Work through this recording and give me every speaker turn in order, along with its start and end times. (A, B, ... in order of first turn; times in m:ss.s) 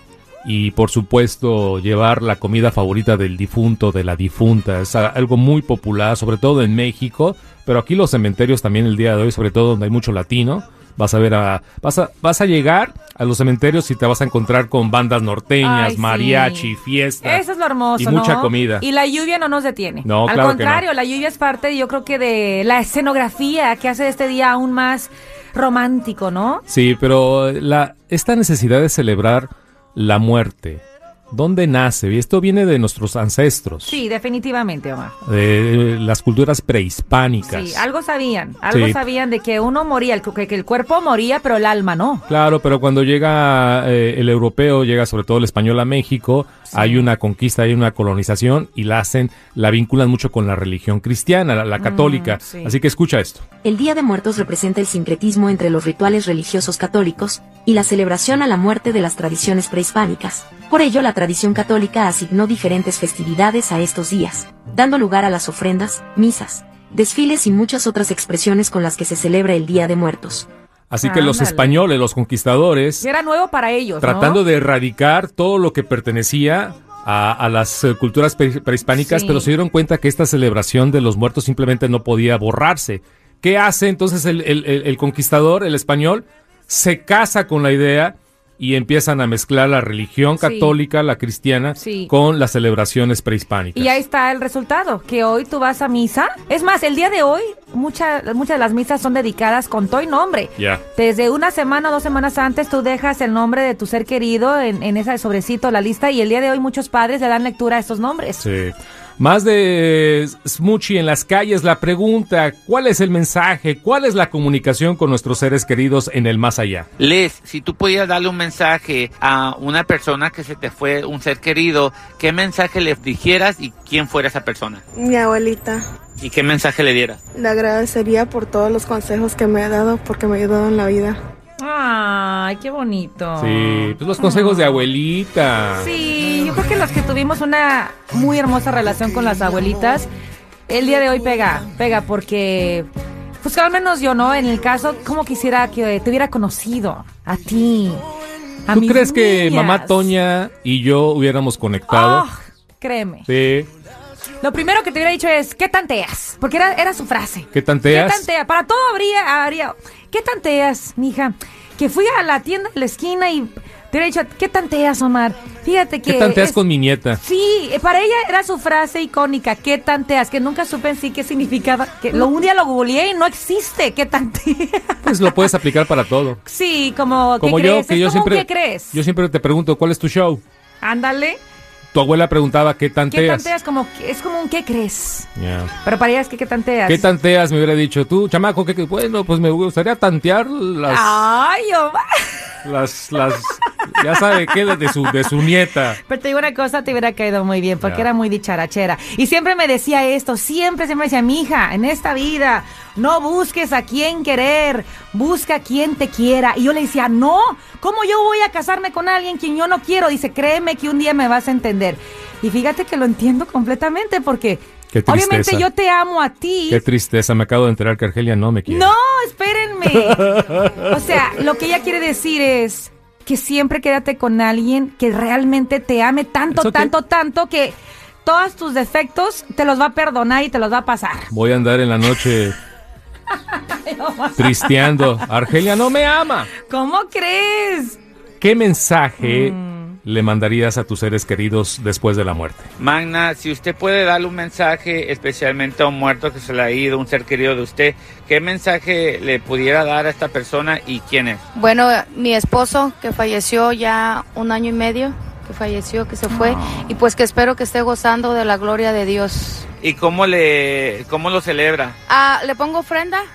0:00.4-0:17.4 A
0:15.6-0:16.7 B
0:17.2-0:26.6 B
0:18.0-0:18.8 A
0:20.0-0:20.8 A
0:26.7-0:34.0 A
0:33.8-0:35.2 B
0:35.2-0:37.8 A
0:37.4-0:42.2 B
0:38.7-0:39.0 A
0:42.3-0:53.5 A
0:46.7-0:47.1 B
0:51.8-0:52.7 B
0:53.6-1:10.5 C
1:10.9-1:13.1 A
1:11.0-1:11.8 B
1:13.0-1:14.4 B
1:14.0-1:34.0 A
1:19.0-1:19.5 B
1:30.4-1:30.8 B
1:31.8-1:32.1 B
1:33.8-1:48.4 B
1:48.4-1:56.9 A
1:57.0-2:04.8 D
2:05.0-2:05.8 E
2:06.2-2:07.2 D
2:07.4-2:11.2 E
2:11.6-2:14.9 B
2:13.4-2:15.9 A
2:15.8-2:20.1 B
2:20.7-2:22.9 B
2:23.4-2:28.1 B
2:28.7-2:30.1 B
2:28.7-2:32.2 A
2:31.9-2:33.3 B
2:33.3-2:33.7 A
2:34.4-2:46.6 B
2:37.5-2:38.3 A
2:46.1-2:47.2 A
2:47.2-2:55.5 B
2:55.0-2:56.4 A
2:56.4-2:59.0 B
2:57.4-3:00.4 A
3:00.8-3:01.4 B
3:01.9-3:03.5 A
3:03.1-3:05.3 B
3:05.4-3:05.7 A
3:05.8-3:07.1 B
3:06.9-3:11.2 A
3:10.9-3:12.5 B
3:12.6-3:16.0 A
3:14.0-3:15.3 B
3:16.0-3:36.8 B
3:17.8-3:18.1 A
3:34.9-3:35.7 A
3:36.7-3:38.9 A
3:38.7-3:51.3 B
3:40.0-3:41.0 A
3:46.5-3:46.9 A
3:51.3-3:52.6 A
3:53.3-3:55.2 B
3:54.4-3:56.5 A
3:56.6-3:58.0 B
3:58.4-4:02.7 A
3:59.2-4:00.0 B
4:02.8-4:11.4 D
4:11.5-4:19.7 F
4:16.3-4:16.6 B
4:19.8-4:22.0 D
4:22.1-4:23.3 F